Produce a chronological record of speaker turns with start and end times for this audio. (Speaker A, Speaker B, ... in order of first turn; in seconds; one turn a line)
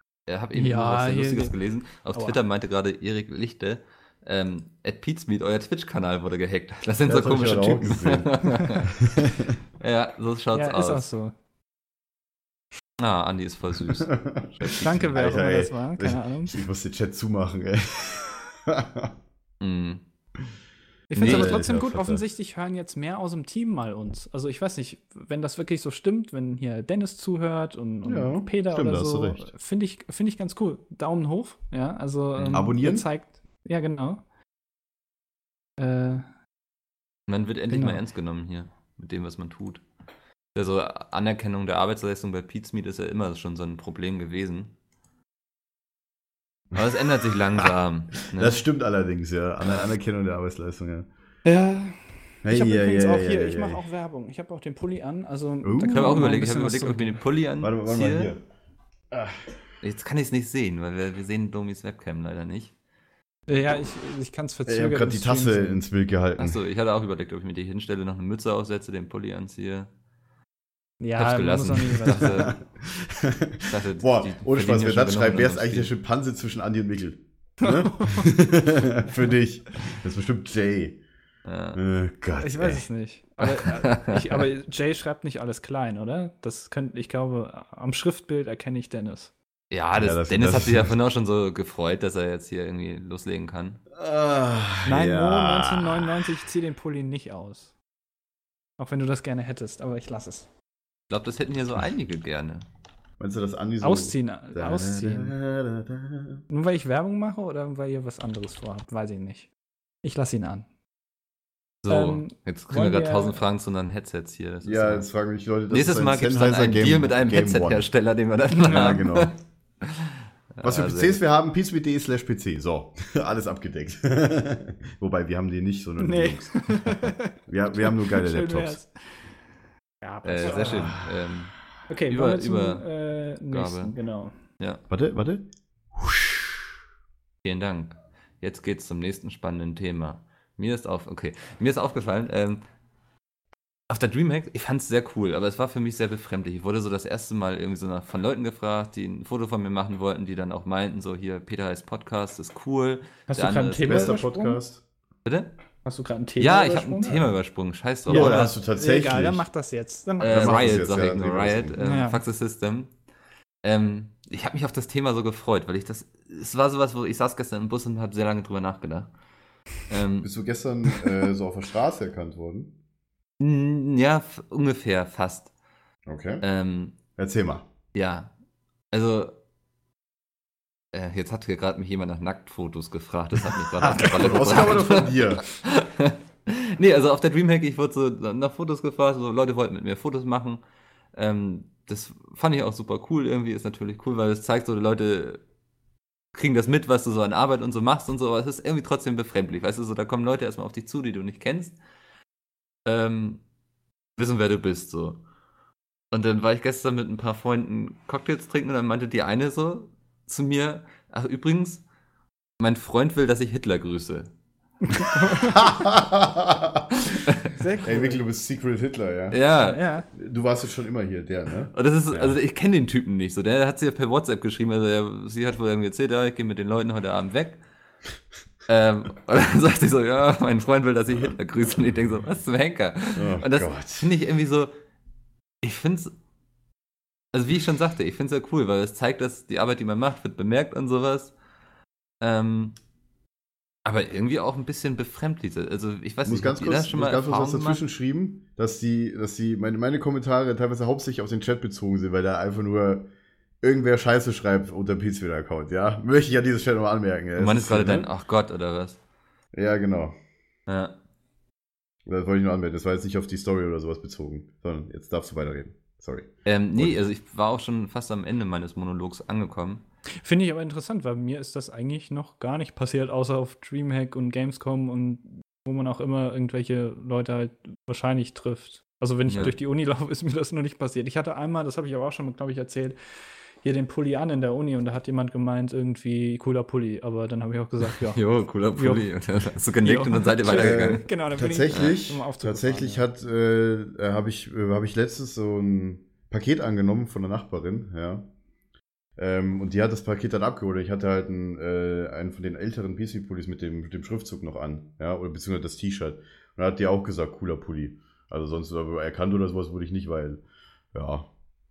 Speaker A: 0.3-8.9
Speaker B: 0.5-1.5
Speaker B: 2.1-2.4
Speaker C: 7.0-8.3
Speaker C: 9.0-9.6
Speaker A: 9.8-11.0
Speaker B: 10.5-11.3
Speaker A: 13.0-15.1
Speaker C: 13.9-19.1
Speaker B: 14.8-16.5
Speaker A: 19.6-20.0
Speaker B: 21.1-34.2
Speaker C: 21.1-22.2
Speaker A: 21.2-21.6
Speaker C: 28.1-29.5
Speaker C: 32.5-33.1
Speaker B: 35.8-36.2
Speaker A: 37.3-39.8
Speaker B: 37.7-38.0
Speaker A: 40.5-44.7
Speaker A: 46.8-48.6
Speaker C: 48.3-51.1
Speaker B: 51.5-57.2
Speaker C: 52.4-53.8
Speaker C: 55.6-56.2
Speaker A: 55.9-58.3
Speaker C: 57.6-58.4
Speaker C: 59.1-59.4
Speaker A: 59.8-62.7
Speaker B: 63.5-65.8
Speaker C: 64.7-66.6
Speaker A: 66.4-69.9
Speaker B: 71.0-72.5
Speaker A: 71.2-72.5
Speaker C: 72.3-81.0
Speaker A: 73.7-75.9
Speaker B: 77.6-78.3
Speaker A: 81.5-81.8
Speaker C: 81.8-82.8
Speaker B: 82.4-89.3
Speaker A: 83.4-84.5
Speaker A: 89.7-93.8
Speaker C: 90.0-91.0
Speaker C: 93.9-96.4
Speaker B: 94.8-97.7
Speaker B: 98.8-100.5
Speaker A: 101.1-102.7
Speaker C: 103.2-106.4
Speaker B: 103.8-105.3
Speaker B: 106.5-109.5
Speaker B: 110.0-110.7
Speaker A: 111.8-115.1
Speaker B: 111.9-113.4
Speaker C: 114.6-117.9
Speaker A: 115.7-121.2
Speaker B: 118.6-119.0
Speaker C: 118.6-119.3
Speaker C: 120.6-128.8
Speaker B: 126.0-128.9
Speaker B: 130.0-131.0
Speaker A: 130.2-131.6
Speaker C: 130.5-131.2
Speaker B: 131.9-134.3
Speaker A: 132.1-132.8
Speaker A: 133.5-133.9
Speaker C: 134.9-136.7
Speaker A: 137.4-142.6
Speaker A: 143.9-154.2
Speaker B: 153.3-154.6
Speaker C: 153.8-154.8
Speaker A: 155.2-155.5
Speaker B: 155.8-157.2
Speaker A: 156.4-158.6
Speaker C: 158.1-159.5
Speaker B: 158.1-160.8
Speaker A: 160.2-162.9
Speaker C: 160.3-161.8
Speaker B: 161.8-162.2
Speaker A: 163.6-169.1
Speaker A: 169.9-170.3
Speaker C: 170.2-172.7
Speaker A: 173.4-175.5
Speaker C: 176.1-176.4
Speaker A: 176.4-177.0
Speaker C: 177.2-177.7
Speaker A: 177.9-178.3
Speaker A: 178.9-179.3
Speaker A: 180.9-190.6
Speaker C: 183.7-185.5
Speaker A: 191.1-195.4
Speaker A: 196.3-201.8
Speaker A: 202.9-203.4
Speaker A: 204.2-205.2
Speaker A: 206.1-211.8
Speaker A: 212.6-214.3
Speaker B: 214.9-215.6
Speaker C: 215.3-217.1
Speaker B: 217.5-218.2
Speaker C: 217.8-219.4
Speaker A: 219.3-219.8
Speaker B: 219.6-220.1
Speaker C: 220.1-222.4
Speaker A: 221.7-227.6
Speaker A: 228.7-234.7
Speaker C: 233.1-234.1
Speaker A: 235.6-236.1
Speaker A: 237.3-241.3
Speaker A: 242.2-242.8
Speaker A: 243.8-247.8
Speaker C: 246.2-253.1
Speaker C: 253.6-258.1
Speaker A: 257.4-259.0
Speaker C: 259.5-260.1
Speaker A: 260.7-260.9
Speaker C: 262.1-267.0
Speaker A: 266.5-269.8
Speaker B: 270.2-283.0
Speaker A: 279.3-279.5
Speaker B: 283.6-288.2
Speaker A: 288.1-291.1
Speaker B: 288.8-289.1
Speaker B: 289.8-293.0
Speaker C: 290.5-298.3
Speaker C: 299.2-310.4
Speaker C: 310.9-311.3